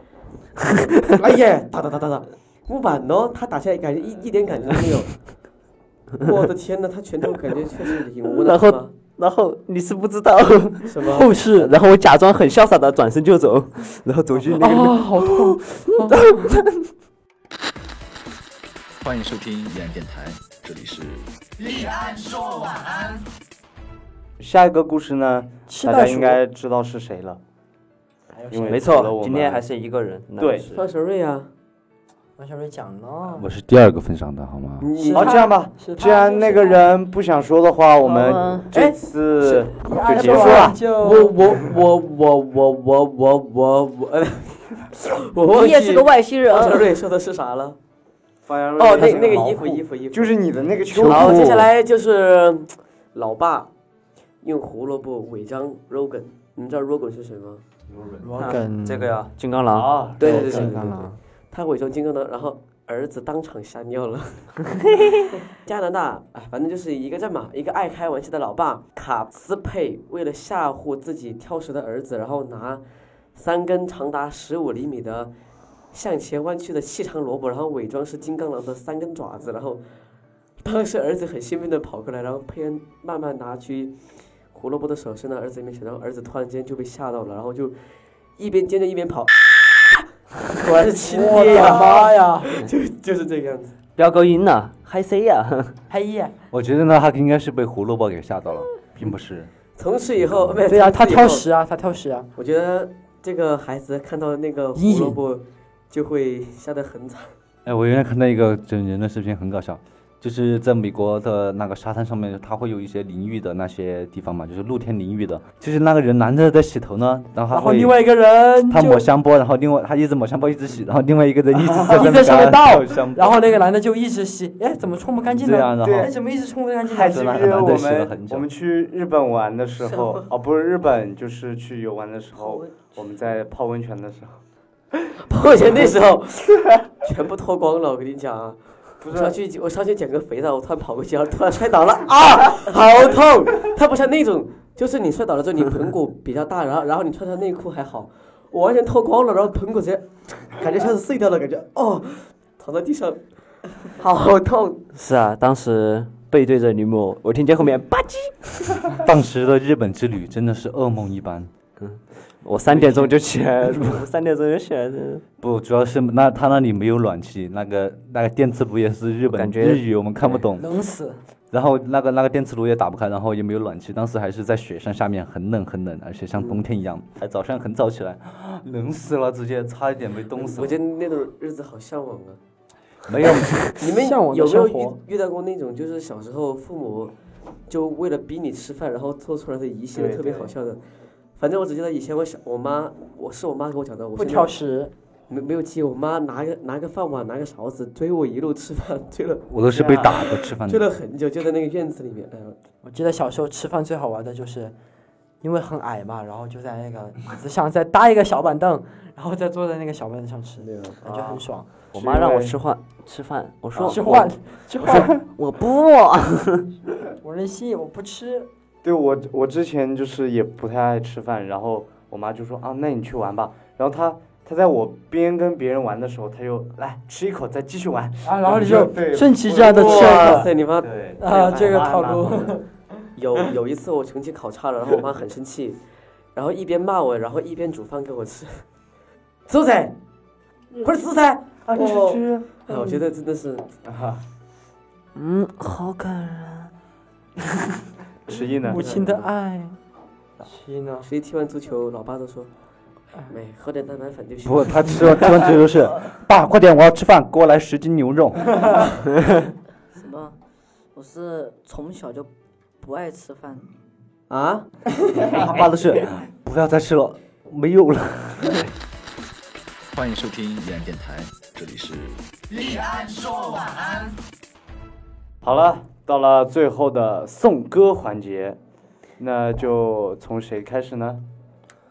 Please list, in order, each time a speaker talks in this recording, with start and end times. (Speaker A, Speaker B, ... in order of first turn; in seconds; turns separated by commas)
Speaker A: 0.7-5.2, Speaker A: 6.2-8.9, Speaker B: 8.2-16.8, Speaker A: 10.9-11.4, Speaker C: 11.1-11.7, Speaker C: 14.5-16.4, Speaker D: 19.0-23.0, Speaker E: 24.4-27.4, Speaker C: 25.7-26.4, Speaker C: 28.3-29.1, Speaker E: 28.5-29.6, Speaker B: 28.7-30.8, Speaker E: 30.4-30.7, Speaker A: 30.7-31.5, Speaker C: 32.4-33.5, Speaker F: 33.4-34.9, Speaker A: 34.8-35.6, Speaker C: 35.0-36.9, Speaker E: 35.1-40.9, Speaker G: 38.0-38.7, Speaker A: 39.4-47.8, Speaker C: 39.8-41.4, Speaker G: 45.5-46.8, Speaker E: 48.4-51.6, Speaker A: 48.8-50.4, Speaker A: 50.9-53.7, Speaker B: 51.0-51.6, Speaker A: 54.4-57.6, Speaker E: 57.9-58.5, Speaker C: 58.2-59.2, Speaker B: 58.4-60.9, Speaker E: 59.7-60.7, Speaker A: 60.2-64.5, Speaker C: 60.2-61.2, Speaker A: 65.6-75.3, Speaker A: 75.9-79.8, Speaker A: 80.6-87.8, Speaker A: 88.4-89.3, Speaker A: 90.6-93.7, Speaker C: 90.7-92.5, Speaker B: 94.0-95.8, Speaker C: 95.9-96.3, Speaker F: 96.5-99.5, Speaker A: 99.8-101.5, Speaker F: 100.2-100.6, Speaker C: 100.7-102.3, Speaker A: 102.3-107.3, Speaker C: 104.7-105.2, Speaker F: 107.7-118.1, Speaker C: 117.5-119.0, Speaker F: 118.6-123.3, Speaker E: 121.6-123.0, Speaker C: 121.9-127.6, Speaker F: 125.4-126.1, Speaker E: 125.7-126.1, Speaker E: 126.8-134.4, Speaker F: 127.0-128.4, Speaker G: 132.4-132.8, Speaker A: 135.2-154.8, Speaker E: 139.0-139.3, Speaker B: 154.9-158.9, Speaker F: 159.0-161.5, Speaker B: 161.8-165.2, Speaker E: 162.7-163.1, Speaker F: 165.4-170.7, Speaker B: 169.3-170.3, Speaker C: 170.6-171.2, Speaker F: 171.5-180.8, Speaker A: 180.4-182.4, Speaker F: 183.1-183.7, Speaker A: 183.8-187.1, Speaker C: 183.8-185.0, Speaker A: 187.7-190.8, Speaker E: 189.9-190.5, Speaker A: 191.3-194.6, Speaker C: 194.2-194.9, Speaker A: 195.3-199.5, Speaker F: 199.5-200.9, Speaker E: 199.6-200.2, Speaker A: 200.3-202.6, Speaker C: 202.8-204.7, Speaker C: 205.4-211.7, Speaker A: 210.6-211.5, Speaker B: 211.9-216.7, Speaker E: 211.9-212.6, Speaker E: 213.7-214.2, Speaker C: 213.8-215.2, Speaker E: 214.9-215.2, Speaker C: 217.2-218.5, Speaker E: 218.8-232.6, Speaker C: 228.2-230.5, Speaker A: 229.6-231.1, Speaker C: 231.2-232.6, Speaker A: 233.2-235.8, Speaker A: 236.3-238.6, Speaker A: 239.5-239.9, Speaker A: 240.8-243.7, Speaker E: 241.6-242.5, Speaker E: 243.8-244.2, Speaker B: 245.1-246.7, Speaker E: 248.3-249.0, Speaker C: 248.6-249.8, Speaker A: 248.8-249.2, Speaker C: 250.4-251.1, Speaker A: 251.0-252.5, Speaker A: 253.3-255.5, Speaker F: 254.4-258.7, Speaker G: 259.9-260.3, Speaker G: 260.9-262.3, Speaker G: 262.8-263.7, Speaker A: 264.3-264.7, Speaker F: 265.3-268.6, Speaker D: 269.9-274.0, Speaker E: 275.4-278.6, Speaker E: 279.2-281.2